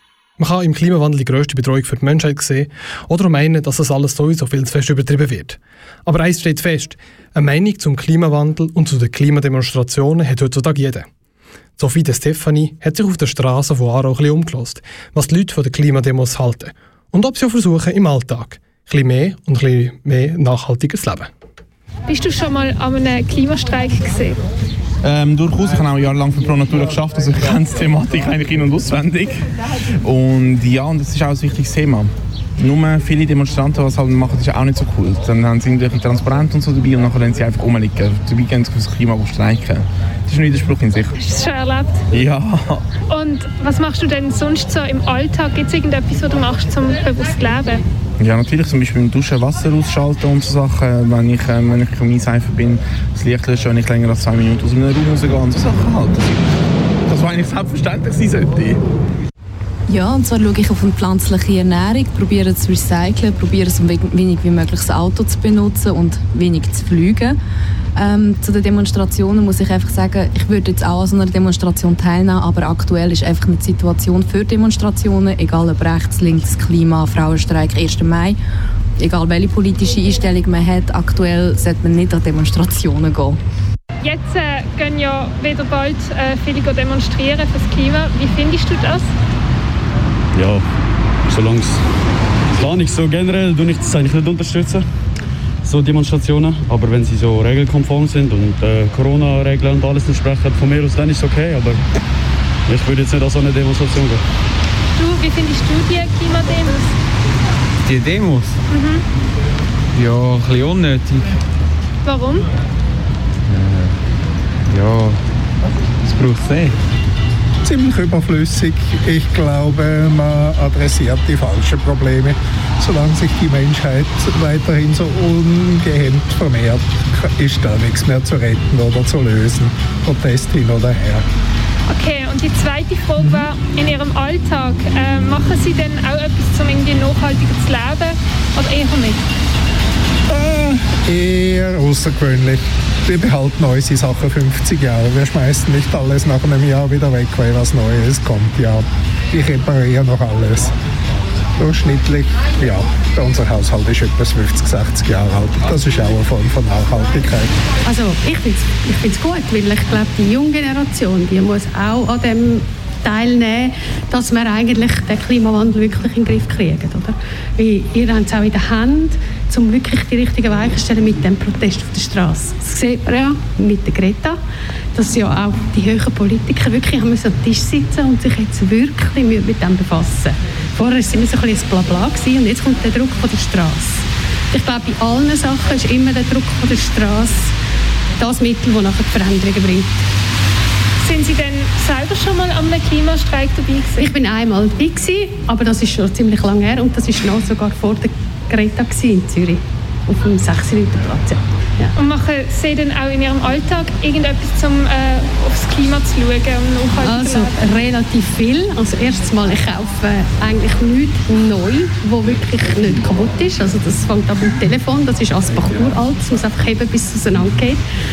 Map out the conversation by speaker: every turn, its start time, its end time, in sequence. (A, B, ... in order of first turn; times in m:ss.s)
0:00.4-0:11.1 A
0:11.8-0:21.3 A
0:22.1-0:24.4 B
0:25.0-0:29.4 C
0:30.0-0:41.1 C
0:41.2-0:42.0 B
0:42.1-0:42.8 C
0:43.1-0:47.8 B
0:48.2-0:56.4 C
0:57.0-0:58.8 C
0:59.9-1:07.4 D
1:08.0-1:18.4 D
1:19.0-1:23.4 D
1:24.0-1:29.1 B
1:30.3-1:30.6 E
1:31.3-1:31.8 E
1:32.6-1:34.8 E
1:35.6-1:41.8 E
1:42.7-1:44.2 E
1:45.0-1:46.9 B
1:47.8-1:48.6 F
1:48.7-1:49.0 B
1:49.9-1:51.3 F
1:52.0-1:52.4 B
1:53.5-1:53.9 F
1:54.7-1:55.2 F
1:56.0-1:56.7 F
1:57.6-2:11.2 G
2:11.9-2:19.2 B
2:13.2-2:13.5 G
2:20.3-2:30.7 G
2:31.6-2:37.5 G
2:37.8-2:54.4 H
2:54.9-3:07.5 H
3:08.2-3:09.9 H
3:11.0-3:14.1 B
3:14.0-3:21.9 H
3:21.9-3:27.5 B
3:27.0-3:37.8 H